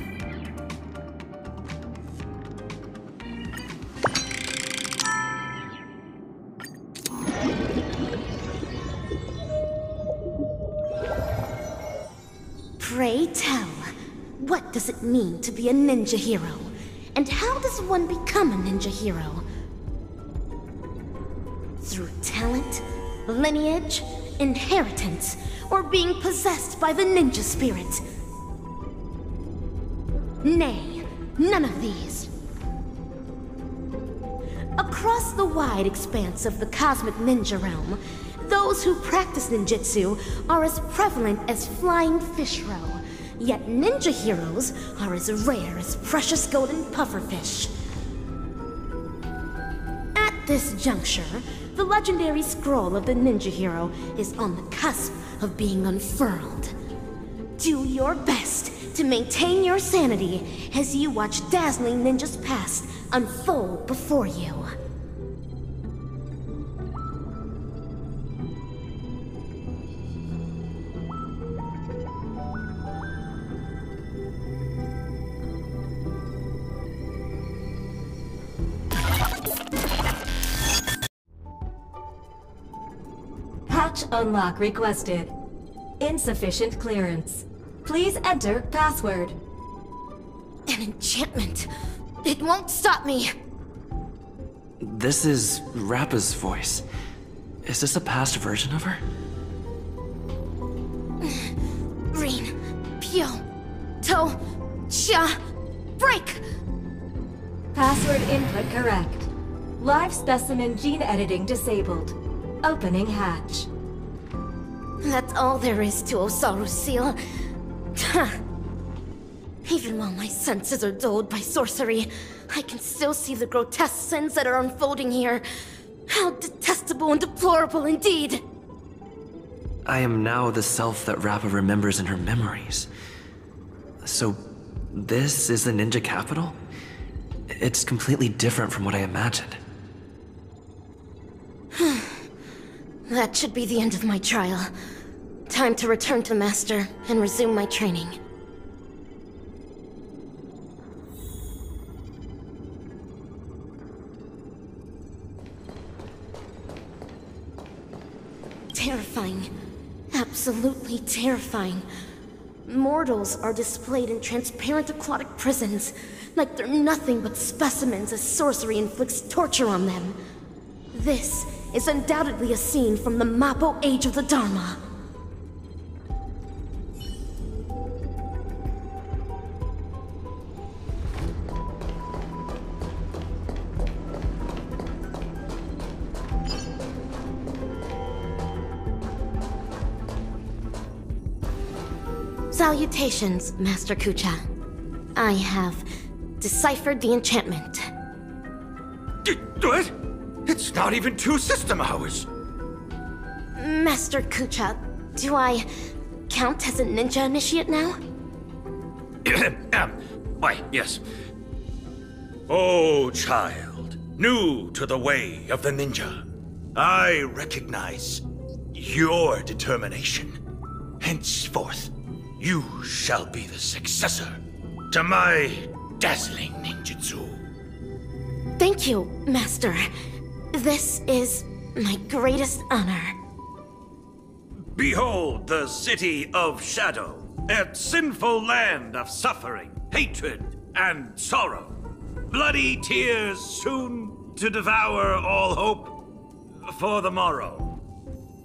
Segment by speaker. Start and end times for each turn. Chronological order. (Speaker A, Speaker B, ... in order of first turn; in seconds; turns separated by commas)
Speaker A: 12.8-19.4, Speaker A: 21.8-28.0, Speaker A: 30.4-32.3, Speaker A: 34.8-47.7, Speaker A: 50.2-56.7, Speaker A: 57.6-64.7, Speaker B: 83.7-85.3, Speaker B: 86.0-89.4, Speaker A: 90.7-91.7, Speaker A: 92.2-93.3, Speaker C: 94.8-96.8, Speaker C: 97.7-99.0, Speaker A: 101.2-101.5, Speaker A: 102.1-103.4, Speaker A: 104.0-105.4, Speaker A: 106.0-106.4, Speaker B: 107.7-113.7, Speaker A: 115.0-117.2, Speaker A: 118.0-118.4, Speaker A: 119.7-125.4, Speaker A: 126.1-128.4, Speaker C: 129.9-132.9, Speaker C: 134.0-134.4, Speaker C: 134.9-136.6, Speaker C: 137.6-139.6, Speaker A: 141.7-142.2, Speaker A: 143.1-144.7, Speaker A: 145.5-148.2, Speaker A: 158.7-159.5, Speaker A: 160.1-161.8, Speaker A: 162.7-170.2, Speaker A: 170.9-174.8, Speaker A: 192.5-194.4, Speaker A: 195.2-195.8, Speaker A: 196.4-197.9, Speaker D: 199.2-199.9, Speaker D: 200.4-202.3, Speaker A: 203.6-205.7, Speaker A: 206.3-208.0, Speaker D: 209.2-211.0, Speaker D: 212.5-216.2, Speaker D: 216.8-220.4, Speaker D: 221.0-227.4, Speaker A: 228.6-229.9, Speaker A: 230.5-233.2, Speaker D: 234.8-241.8, Speaker D: 242.3-246.0, Speaker D: 246.7-247.8